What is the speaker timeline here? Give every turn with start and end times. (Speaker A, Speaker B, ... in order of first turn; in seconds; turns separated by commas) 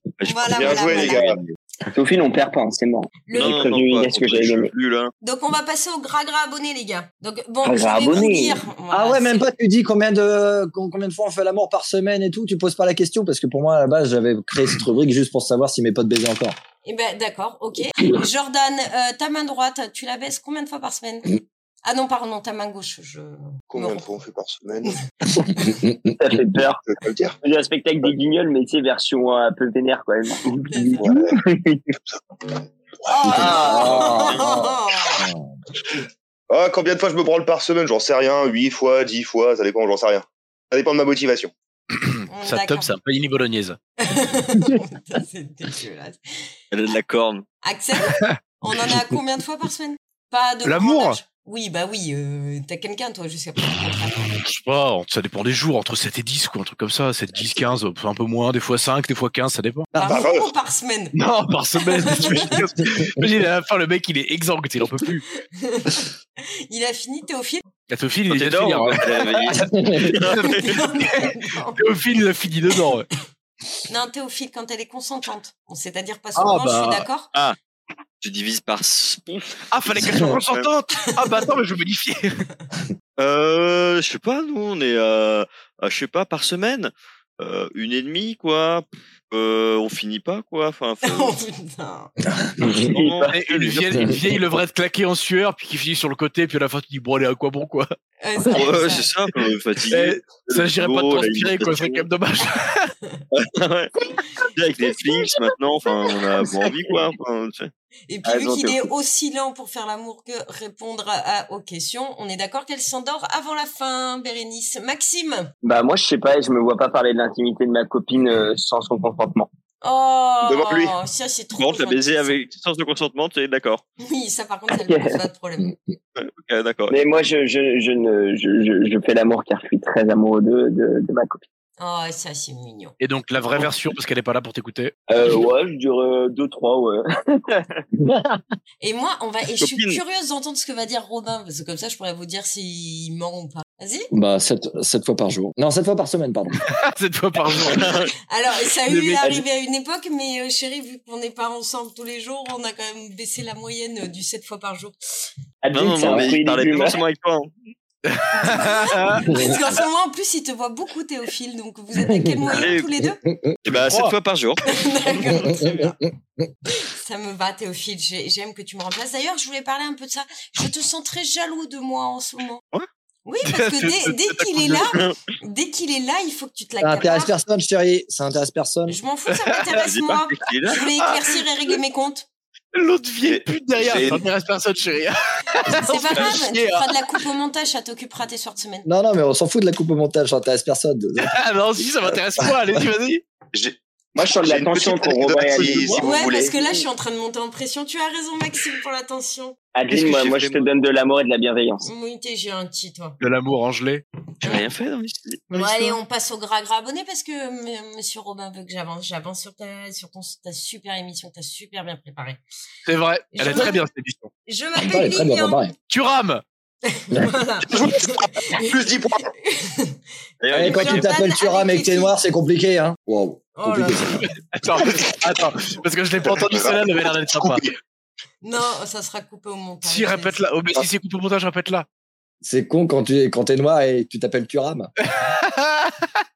Speaker A: 0.2-1.5, Speaker B: 0.3-1.3, Speaker C: 0.5-1.4, Speaker D: 0.6-1.4, Speaker D: 1.9-4.7, Speaker B: 3.3-3.6, Speaker A: 3.3-5.1, Speaker B: 5.2-9.5, Speaker D: 7.6-8.6, Speaker E: 8.9-16.6, Speaker B: 16.9-24.1, Speaker C: 23.7-25.0, Speaker D: 26.1-26.8, Speaker C: 26.9-27.4, Speaker D: 27.4-31.9, Speaker B: 30.7-31.1, Speaker C: 31.0-31.4, Speaker B: 33.1-35.3, Speaker C: 33.2-34.2, Speaker E: 33.2-35.5, Speaker C: 36.5-41.5, Speaker F: 41.9-43.8, Speaker B: 42.3-42.9, Speaker B: 44.0-46.4, Speaker A: 46.7-47.5, Speaker B: 47.6-54.3, Speaker F: 50.6-51.2, Speaker F: 54.3-59.9, Speaker E: 59.9-60.2, Speaker B: 60.0-61.1, Speaker C: 60.0-60.5, Speaker F: 61.1-65.2, Speaker B: 61.8-62.6, Speaker B: 65.6-66.1, Speaker B: 66.7-67.7, Speaker F: 67.9-73.1, Speaker A: 68.3-70.8, Speaker E: 69.7-70.1, Speaker B: 70.4-71.8, Speaker B: 73.9-77.3, Speaker F: 76.3-77.1, Speaker A: 78.2-80.7, Speaker F: 79.7-82.3, Speaker A: 83.2-91.3, Speaker B: 91.0-92.1, Speaker E: 92.5-92.7, Speaker D: 92.6-93.3, Speaker A: 92.8-94.1, Speaker F: 93.3-97.9, Speaker B: 98.2-99.1, Speaker A: 98.5-102.1, Speaker F: 99.9-102.9, Speaker A: 103.3-103.9, Speaker A: 104.5-107.7, Speaker B: 108.1-115.5, Speaker D: 108.2-108.9, Speaker D: 115.6-119.5, Speaker B: 119.8-122.4, Speaker C: 120.4-121.0, Speaker A: 121.5-123.8, Speaker B: 124.0-125.7, Speaker D: 124.7-125.2, Speaker A: 126.2-127.0, Speaker D: 126.9-131.4, Speaker B: 131.8-133.0, Speaker F: 133.0-134.9, Speaker D: 135.1-137.8, Speaker E: 138.0-138.4, Speaker B: 138.8-144.1, Speaker A: 139.6-140.0, Speaker E: 144.1-146.6, Speaker F: 146.7-148.1, Speaker A: 147.6-148.1, Speaker B: 148.3-154.9, Speaker F: 148.9-149.4, Speaker D: 155.6-157.0, Speaker A: 155.7-157.5, Speaker F: 158.1-159.5, Speaker B: 158.3-163.2, Speaker E: 159.3-159.6, Speaker E: 162.0-162.7, Speaker A: 162.5-162.9, Speaker E: 163.2-163.6, Speaker A: 163.7-164.7, Speaker F: 163.7-164.2, Speaker B: 164.7-166.0, Speaker E: 165.2-165.9, Speaker B: 166.7-172.6, Speaker B: 173.3-177.3, Speaker F: 173.4-174.9, Speaker E: 176.8-179.0, Speaker B: 178.9-182.3, Speaker F: 179.3-179.6, Speaker A: 179.7-180.8, Speaker F: 181.0-181.3, Speaker F: 182.7-187.0, Speaker C: 183.2-184.3, Speaker B: 185.6-188.9, Speaker E: 188.8-191.3, Speaker F: 191.2-193.2, Speaker C: 193.5-196.5, Speaker D: 194.2-196.8, Speaker B: 196.0-199.6, Speaker D: 199.7-201.9, Speaker A: 199.9-200.7, Speaker B: 201.8-203.2, Speaker F: 203.2-204.0, Speaker A: 204.4-205.4, Speaker B: 205.5-212.4, Speaker F: 205.5-205.9, Speaker F: 212.9-214.3, Speaker B: 213.3-213.8, Speaker B: 214.5-215.7, Speaker E: 214.8-215.7, Speaker F: 215.9-216.4, Speaker B: 216.9-220.0, Speaker C: 217.7-219.3, Speaker A: 220.4-221.1, Speaker E: 220.5-224.3, Speaker B: 220.5-222.2, Speaker B: 223.6-224.1, Speaker F: 224.2-227.8, Speaker C: 226.3-227.7, Speaker B: 228.4-230.4, Speaker F: 229.8-231.9, Speaker E: 232.4-234.9, Speaker F: 235.1-236.1